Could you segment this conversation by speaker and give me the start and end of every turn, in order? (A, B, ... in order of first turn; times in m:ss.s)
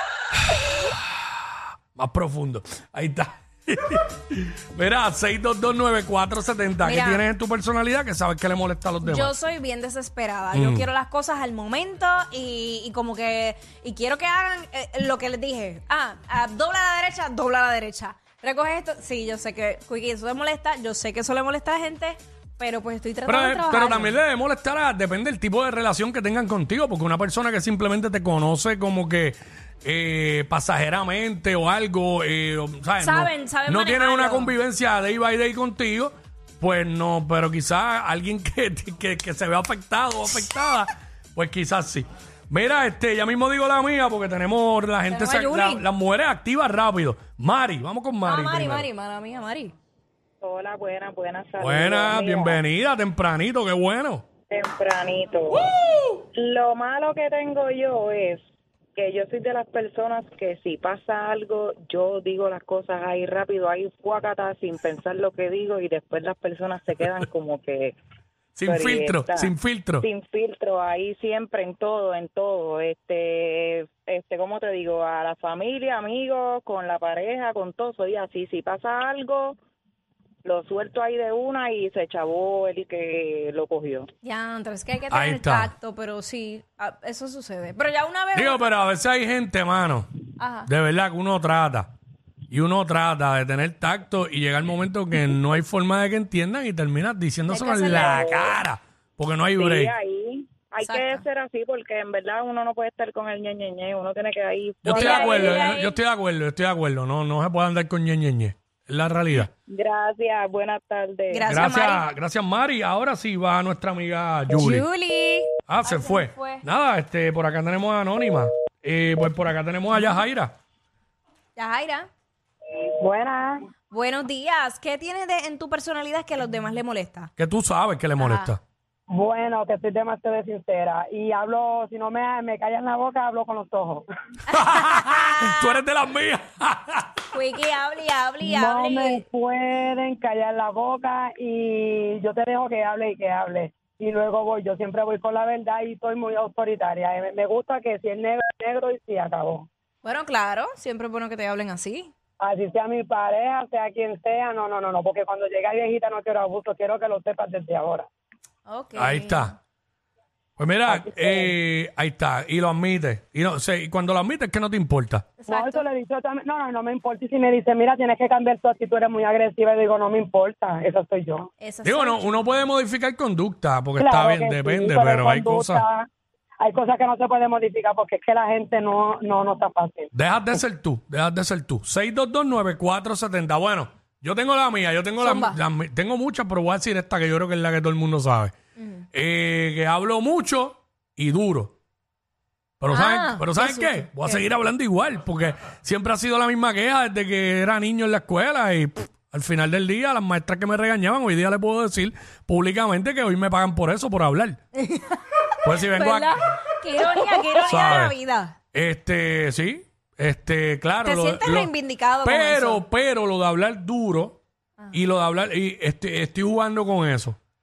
0:00.5-0:01.2 A
0:02.0-0:09.3 A
0:06.8-0:07.2 B
0:09.0-0:24.2 B
0:10.5-0:10.9 A
0:23.2-0:48.9 A
0:33.0-0:34.5 B
0:45.1-0:45.8 B
0:48.2-0:49.7 B
0:50.4-0:52.6 C
0:51.6-0:54.2 A
0:54.5-0:55.7 C
0:56.3-0:58.4 C
0:59.0-1:07.9 C
1:08.6-1:10.0 A
1:08.6-1:19.6 C
1:20.4-1:24.0 C
1:24.2-1:28.6 B
1:25.1-1:25.7 A
1:28.3-1:30.1 A
1:30.4-1:30.7 B
1:30.7-1:31.9 A
1:32.5-1:39.9 A
1:37.5-1:38.3 B
1:37.8-1:38.5 C
1:39.6-1:45.8 C
1:40.8-1:41.2 B
1:44.8-1:49.5 A
1:44.9-1:45.9 B
1:49.7-1:51.5 C
1:51.3-1:52.0 B
1:51.5-1:54.8 A
1:54.5-1:56.6 B
1:55.7-2:00.5 A
2:01.6-2:02.1 B
2:03.0-2:03.6 D
2:03.9-2:07.3 B
2:07.4-2:08.6 A
2:08.2-2:08.5 B
2:09.1-2:14.0 D
2:14.5-2:15.5 B
2:14.5-2:17.2 A
2:17.3-2:19.2 B
2:18.4-2:29.6 D
2:30.0-2:32.1 B
2:32.4-2:38.1 D
2:38.7-2:39.5 B
2:39.0-2:39.5 A
2:40.6-2:45.2 A
2:40.9-2:41.5 D
2:45.4-2:45.8 B
2:45.5-2:51.5 D
2:51.6-2:52.4 B
2:51.8-2:55.8 A
2:54.0-2:56.1 D
2:56.6-3:00.1 D
3:00.1-3:08.5 A
3:05.2-3:05.6 B
3:08.8-3:09.0 B
3:09.1-3:11.7 A
3:12.8-3:24.6 A
3:12.9-3:14.4 B
3:24.8-3:28.6 B
3:25.6-3:26.4 A
3:27.6-3:28.1 A
3:28.7-3:31.7 A
3:31.0-3:32.8 B
3:32.2-3:34.4 A
3:34.9-3:37.4 A